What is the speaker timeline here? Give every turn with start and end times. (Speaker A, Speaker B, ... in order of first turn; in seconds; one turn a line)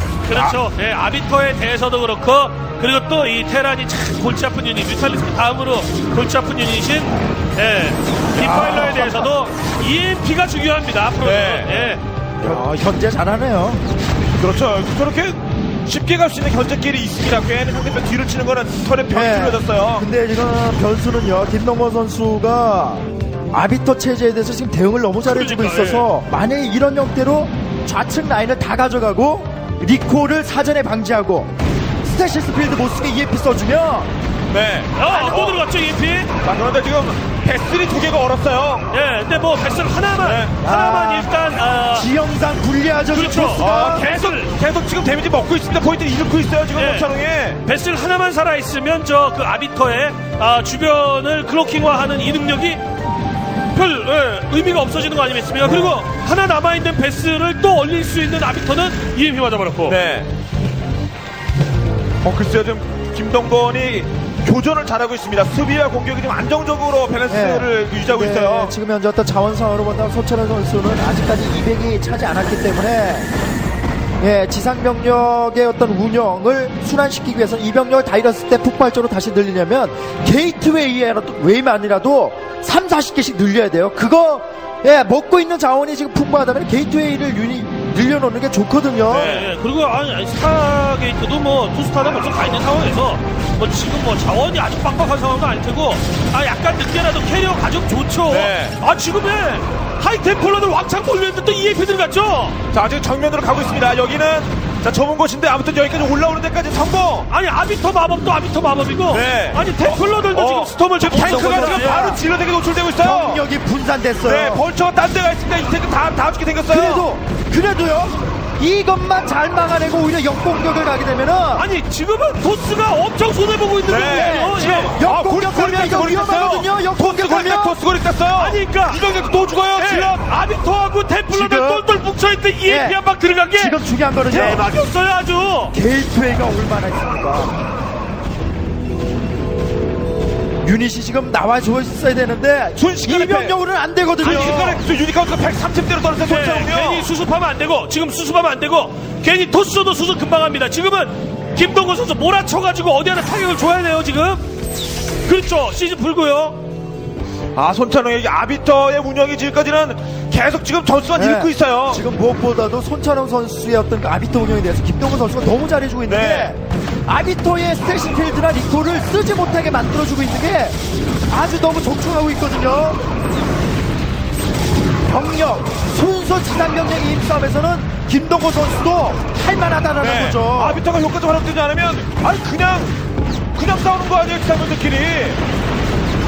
Speaker A: 0.2-12.0
Speaker B: 0.3-0.6
Speaker B: 8.4-8.8
Speaker C: 8.4-9.3
Speaker B: 11.2-12.6
Speaker C: 12.4-13.8
Speaker B: 14.4-20.1
Speaker C: 19.1-31.5
Speaker A: 25.2-26.1
Speaker C: 32.0-34.1
Speaker B: 34.5-35.6
Speaker A: 35.0-36.3
Speaker B: 36.4-38.9
Speaker A: 38.9-42.1
Speaker B: 40.2-40.5
Speaker C: 40.6-41.3
Speaker C: 41.9-44.1
Speaker A: 43.1-44.5
Speaker B: 43.5-47.6
Speaker A: 46.7-52.8
Speaker A: 53.7-60.0
Speaker B: 59.8-60.3
Speaker B: 62.2-68.7
Speaker C: 67.3-73.3
Speaker C: 74.2-89.4
Speaker B: 89.1-89.5
Speaker A: 89.2-102.6
Speaker B: 98.3-98.8
Speaker B: 102.7-107.3
Speaker A: 107.3-112.2
Speaker B: 109.1-113.4
Speaker C: 111.1-112.2
Speaker C: 113.0-114.6
Speaker B: 114.2-117.0
Speaker C: 116.7-121.7
Speaker A: 121.5-124.9
Speaker B: 123.8-130.2
Speaker C: 124.0-127.8
Speaker A: 128.3-129.0
Speaker A: 129.7-135.7
Speaker C: 131.3-131.8
Speaker C: 132.7-133.0
Speaker C: 133.5-134.7
Speaker C: 135.7-137.6
Speaker C: 140.6-144.8
Speaker B: 142.8-143.6
Speaker B: 144.2-147.1
Speaker A: 144.4-144.7
Speaker A: 146.2-154.4
Speaker A: 155.2-156.6
Speaker B: 157.5-162.0
Speaker C: 161.1-170.8
Speaker B: 166.0-166.5
Speaker C: 171.3-173.0
Speaker C: 175.1-180.8
Speaker B: 180.0-182.9
Speaker B: 183.5-185.4